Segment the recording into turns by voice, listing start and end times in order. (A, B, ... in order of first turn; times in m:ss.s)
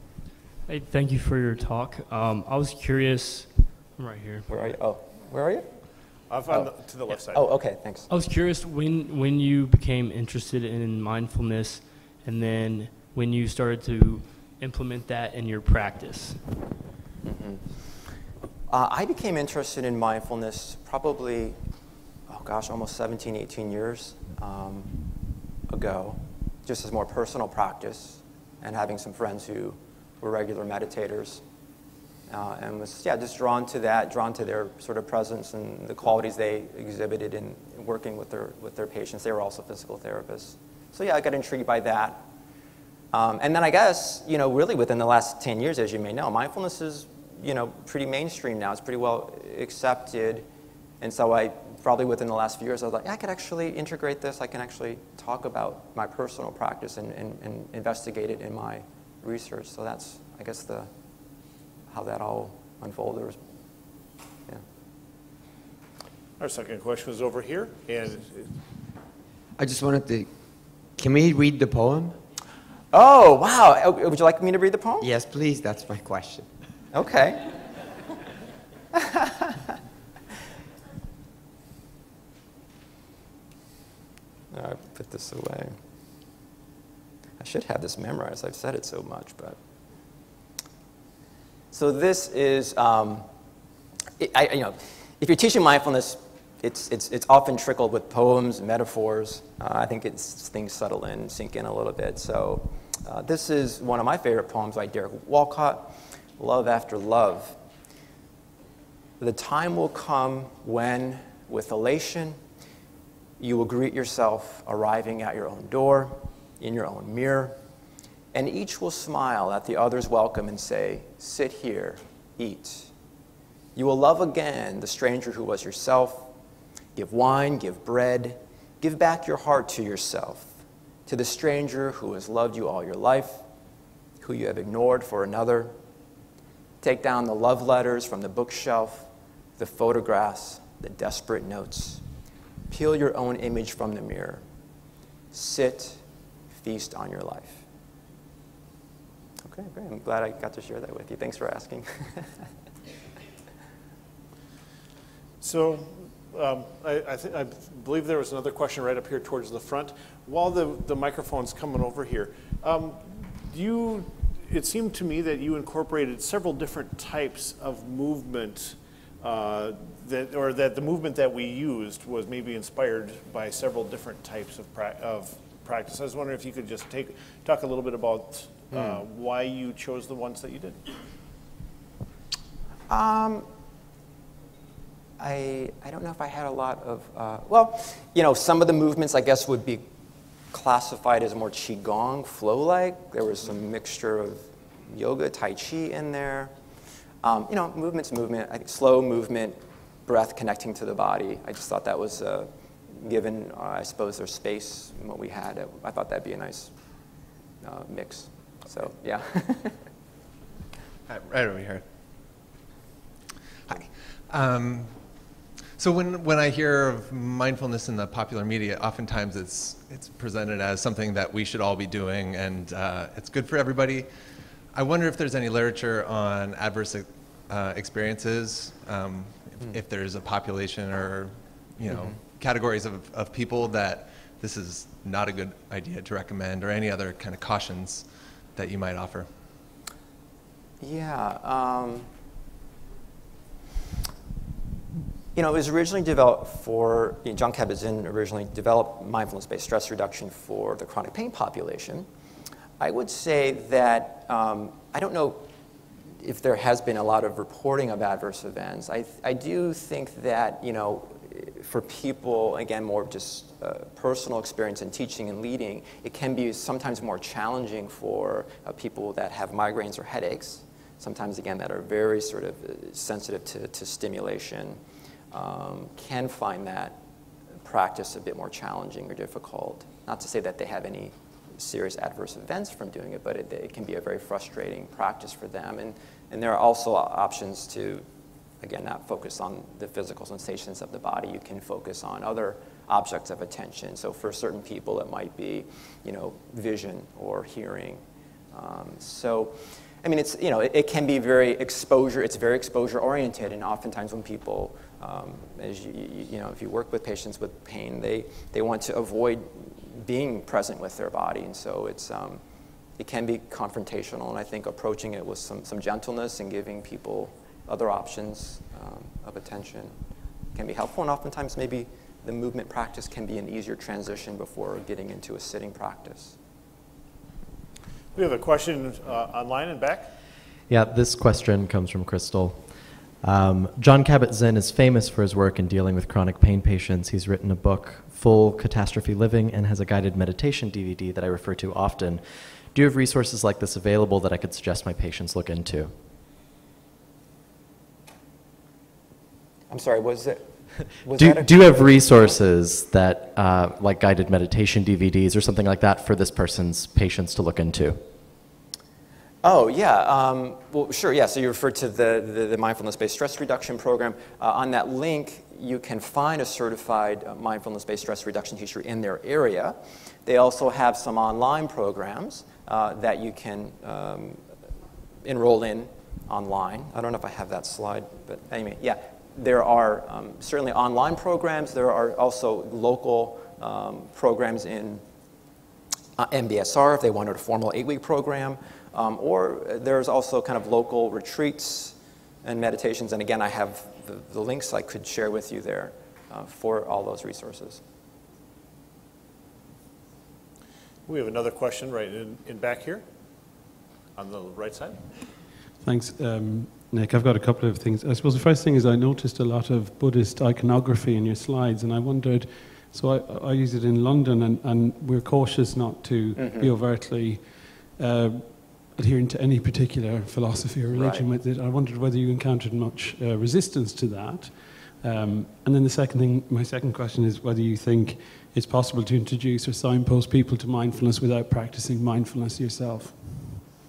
0:00.6-0:04.7 A
0:04.5-0:06.7 B
0:06.3-0:07.5 C
0:07.3-0:08.1 B
0:08.1-0:16.7 A
0:17.2-0:17.7 B
0:18.7-0:21.6 B
0:22.3-0:25.0 B
0:25.7-0:31.4 B
0:32.3-0:42.3 B
0:43.1-0:50.5 B
0:51.0-1:00.9 B
1:01.9-1:03.4 B
1:06.4-1:08.6 C
1:09.6-1:10.3 D
1:11.0-1:12.2 D
1:12.9-1:15.1 B
1:15.0-1:16.5 D
1:16.9-1:17.5 B
1:24.5-1:25.8 B
1:27.4-1:29.6 B
1:31.7-1:33.3 B
1:34.2-1:47.6 B
1:49.2-1:52.4 B
1:53.4-1:57.6 B
1:58.3-2:02.9 B
2:03.8-2:06.3 B
2:07.0-2:13.4 B
2:14.2-2:15.8 B
2:16.8-2:22.0 B
2:22.7-2:24.4 B
2:25.3-2:27.6 B
2:29.4-2:32.5 B
2:35.4-3:00.8 C
2:58.7-2:59.0 B
3:02.9-3:03.5 B
3:05.2-3:09.9 B
3:10.5-3:16.5 B
3:17.2-3:26.7 B
3:27.6-3:29.8 B
3:31.1-3:31.9 E
3:33.7-3:44.1 E
3:44.7-3:59.3 E
4:00.8-4:02.1 B
4:05.4-4:12.1 B
4:12.8-4:15.5 B
4:16.2-4:34.8 B
4:35.3-4:37.0 B
4:37.6-4:48.0 B
4:48.6-5:12.4 B
5:13.0-5:20.0 B
5:20.5-5:26.4 B
5:28.1-5:30.1 C
5:30.7-5:45.9 F
5:49.7-5:51.8 B
5:51.1-5:58.0 F
5:59.4-6:14.4 B
6:15.2-6:25.0 B
6:26.2-6:37.8 B
6:41.1-6:43.1 C
6:44.2-6:45.1 C
6:45.8-7:13.6 G
6:56.4-6:56.7 B
7:00.9-7:01.3 B